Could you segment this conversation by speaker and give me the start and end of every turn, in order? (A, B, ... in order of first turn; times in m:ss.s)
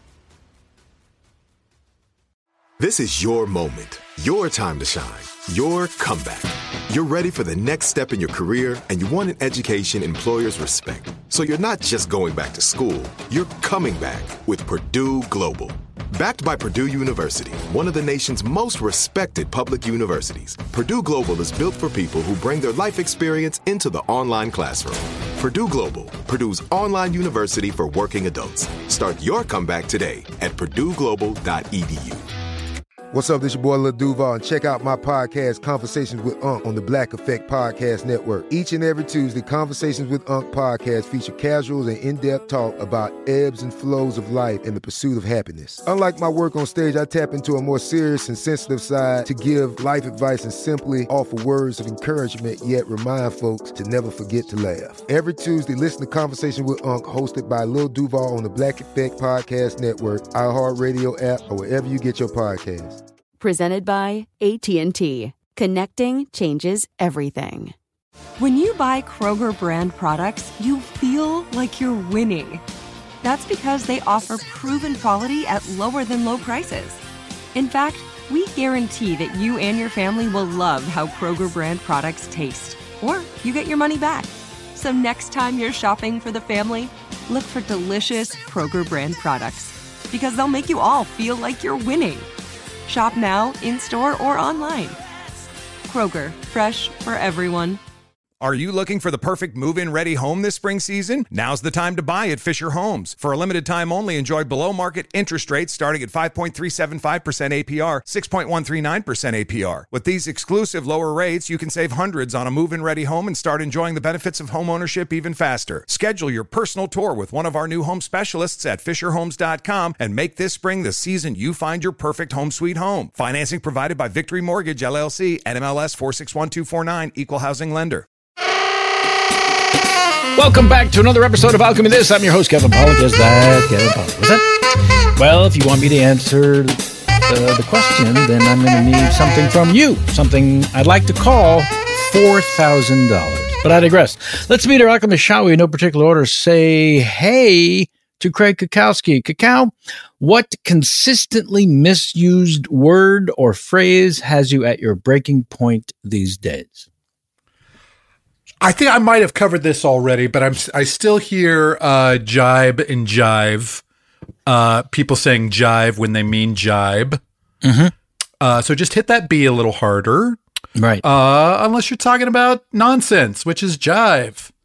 0:02.8-0:32.3 A
0:33.1-1:03.0 B
1:03.4-1:07.8 C
1:08.4-1:12.6 D
1:13.2-1:17.0 D
1:17.6-1:32.3 D
1:32.9-1:35.0 D
1:35.9-1:37.8 D
1:38.4-2:08.1 E
2:10.4-2:14.4 F
2:15.2-2:36.9 F
2:38.6-2:43.8 G
2:44.5-2:47.2 G
2:47.6-2:47.9 F
2:48.4-2:50.4 G
2:50.8-2:51.0 F
2:51.0-2:54.5 G